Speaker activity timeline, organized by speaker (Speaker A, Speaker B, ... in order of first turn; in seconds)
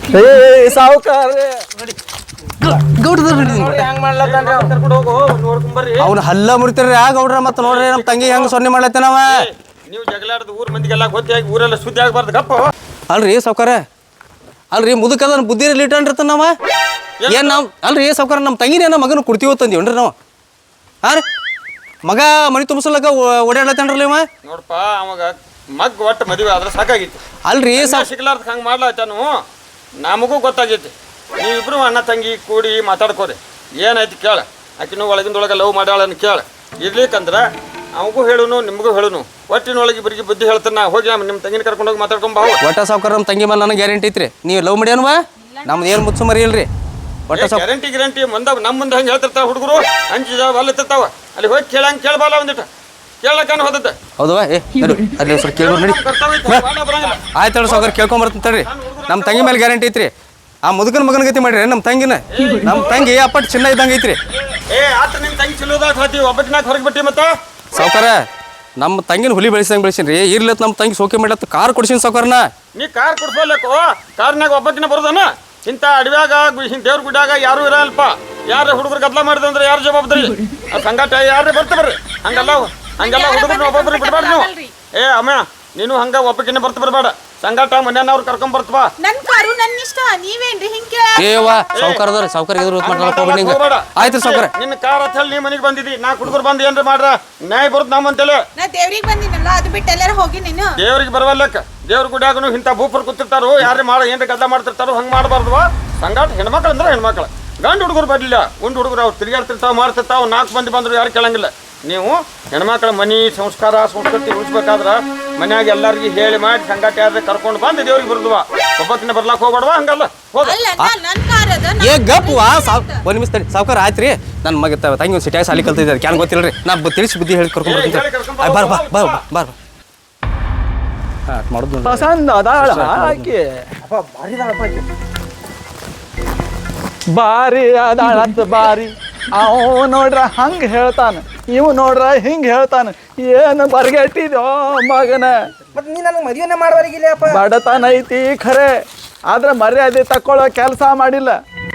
Speaker A: 0.1-1.6, 131.8-133.6, 137.1-145.3, 147.2-148.7, 149.3-151.3
Speaker B: 2.7-3.9, 6.0-9.3, 13.1-13.8, 14.7-16.5, 17.3-20.1, 22.0-24.2, 27.4-28.1, 42.6-46.7, 47.3-47.6, 54.2-56.6, 57.3-60.1, 60.6-64.2, 67.7-68.2, 68.8-72.5, 91.2-94.5, 121.8-129.5, 131.3-133.3
Speaker C: 3.4-4.7, 133.9-134.8, 145.7-147.4
Speaker D: 4.2-6.1, 7.6-8.5, 9.3-12.7, 17.2-17.6, 24.4-27.2, 27.8-29.3, 30.0-42.6, 47.3-52.7, 53.2-54.0, 55.3-58.0, 58.6-59.6, 62.3-63.1, 64.3-67.3, 72.7-88.9, 91.7-92.0, 92.8-98.4, 100.8-120.6, 127.6-129.2
Speaker E: 82.3-84.7, 89.0-91.6, 98.6-100.8, 120.4-123.0